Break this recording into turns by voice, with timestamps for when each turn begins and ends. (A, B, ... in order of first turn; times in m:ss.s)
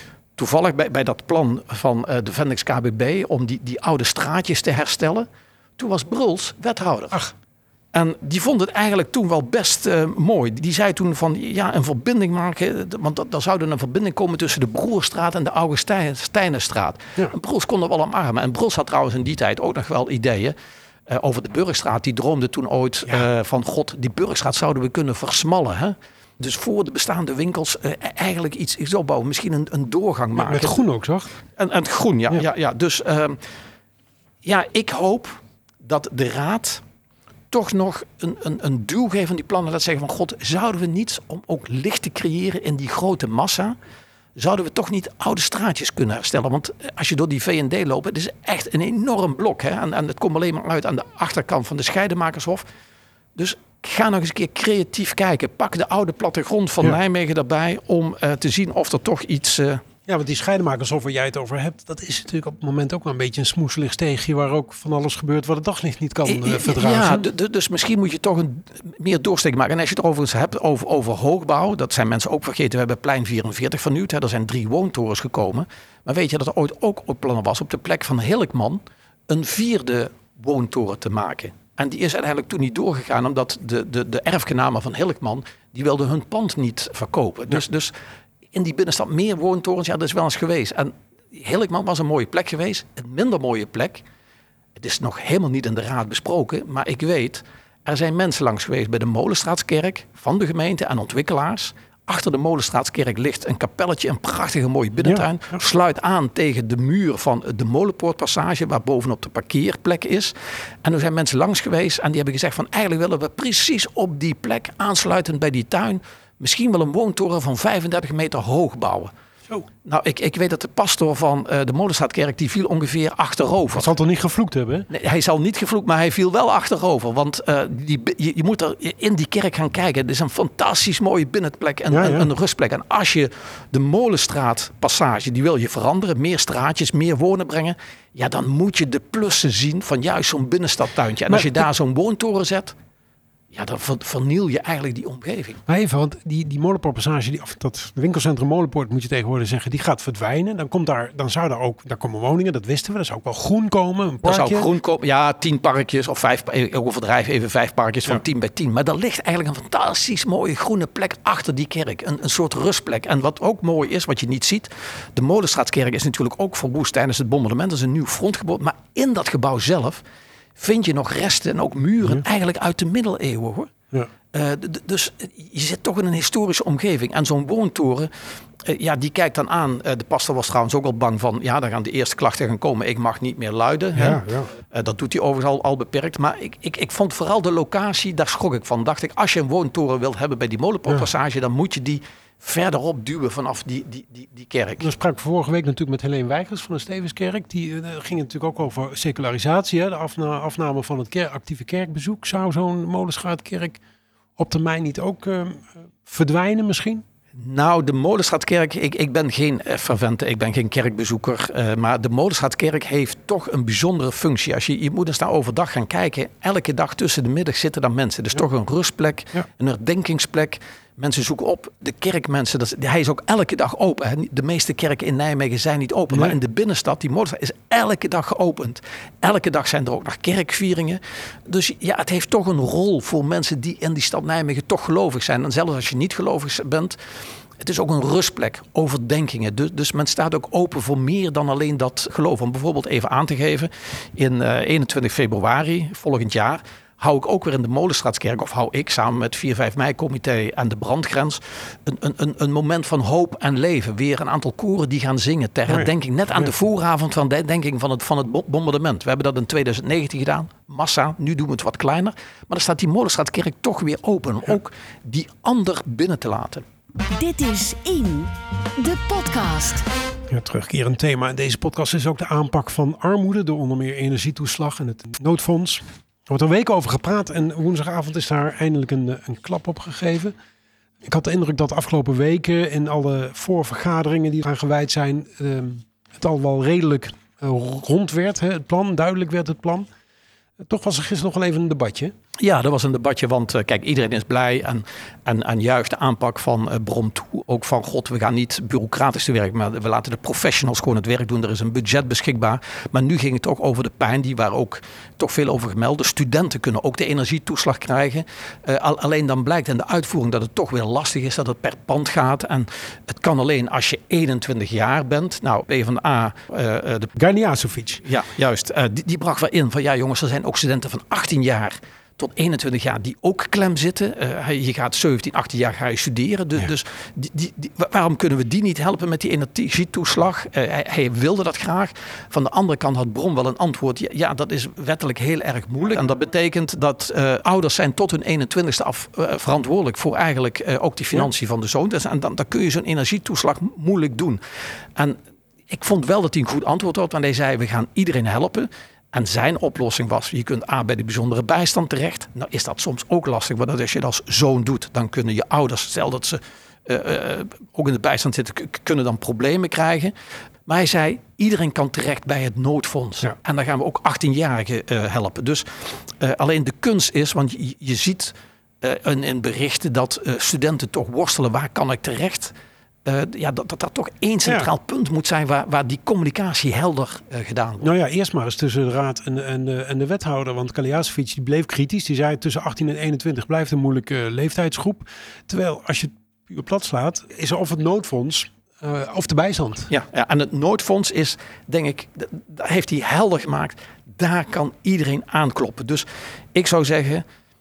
0:00.4-0:07.2 A
0:07.9-0:20.6 A
0:21.1-0:30.8 A
0:30.4-0:31.3 B
0:31.6-0:33.4 A
0:34.4-0:36.8 A
0:37.5-0:43.8 A
0:44.4-0:52.6 A
0:53.4-0:59.8 A
1:00.0-1:07.3 B
1:06.2-1:27.9 A
1:28.5-1:34.0 A
1:34.8-1:59.1 A
1:59.8-2:03.9 A
2:03.7-2:04.9 B
2:04.9-2:22.7 A
2:11.9-2:12.3 B
2:21.3-2:21.6 B
2:23.5-2:25.6 A
2:25.7-2:34.7 B
2:34.2-2:50.0 A
2:50.6-2:53.7 A
2:54.3-3:14.9 A
3:03.9-3:04.5 B
3:14.8-3:23.8 B
3:24.4-3:27.0 B
3:27.4-3:57.0 A
3:57.6-4:26.6 A
4:27.1-4:29.8 C
4:30.3-4:40.3 B
4:41.0-4:49.9 B
4:50.6-4:52.1 B
4:52.4-5:17.1 A
5:17.2-5:18.0 B
5:18.0-5:44.4 A
5:45.0-6:00.1 A
6:00.6-6:12.5 A
6:13.0-6:17.9 A
6:17.8-6:29.9 B
6:29.9-6:37.2 A